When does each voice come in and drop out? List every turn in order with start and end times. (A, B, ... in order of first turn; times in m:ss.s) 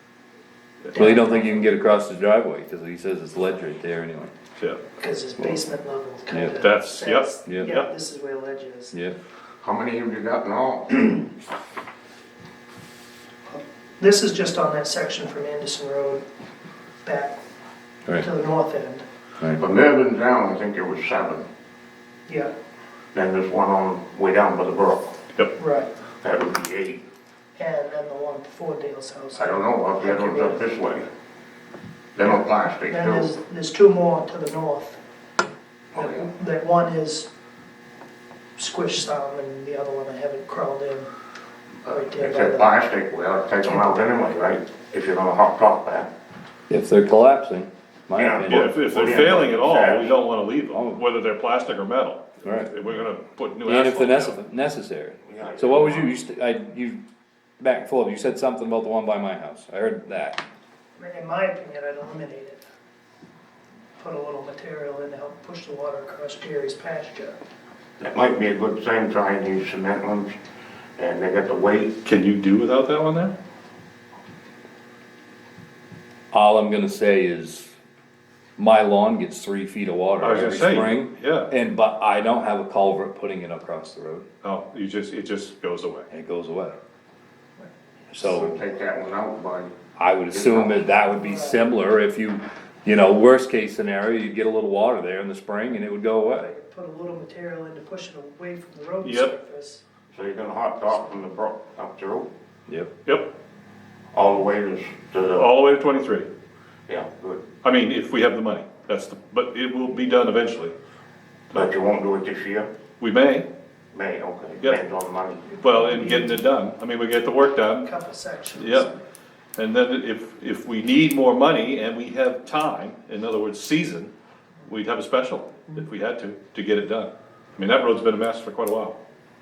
0:00.9-0:01.7 A
0:00.9-0:04.3 B
0:05.0-0:08.9 A
0:06.6-0:07.9 C
0:07.4-0:07.7 B
0:09.6-0:11.3 D
0:13.5-0:16.2 A
0:17.0-0:17.4 A
0:18.2-0:19.0 A
0:19.6-0:21.5 D
0:23.1-0:25.2 D
0:25.6-0:25.9 A
0:26.2-0:27.0 D
0:27.6-0:30.8 A
0:29.4-0:31.1 D
0:32.1-0:33.3 D
0:32.9-0:35.0 A
0:35.9-0:36.2 D
0:35.9-0:37.3 A
0:38.6-0:41.1 A
0:41.8-0:42.7 A
0:42.1-0:46.1 D
0:46.7-0:48.8 B
0:48.2-0:50.2 D
0:48.5-0:54.4 C
0:50.7-0:51.0 B
0:52.4-0:52.7 B
0:53.6-0:57.0 B
0:55.3-0:56.1 D
0:57.6-1:00.4 B
1:01.0-1:02.6 A
1:04.0-1:07.4 A
1:08.0-1:10.4 D
1:11.0-1:11.9 D
1:12.0-1:13.3 C
1:16.3-1:17.8 B
1:18.6-1:24.3 B
1:20.2-1:21.5 C
1:24.4-1:26.1 C
1:26.1-1:26.8 B
1:28.1-1:28.6 B
1:28.2-1:29.7 D
1:30.0-1:36.5 B
1:30.3-1:30.9 D
1:31.1-1:31.6 A
1:36.3-1:39.8 A
1:39.0-1:39.3 C
1:40.1-1:42.3 D
1:43.0-1:43.3 C
1:44.1-1:45.5 D
1:45.3-1:46.3 C
1:46.9-1:47.4 D
1:47.6-1:50.7 C
1:51.5-1:52.7 D
1:53.0-1:53.5 C
1:53.9-1:55.5 D
1:55.5-1:56.4 A
1:55.6-1:57.9 C
1:57.8-1:59.0 A
1:58.6-1:58.9 C
1:59.6-2:04.1 C
2:04.7-2:09.0 C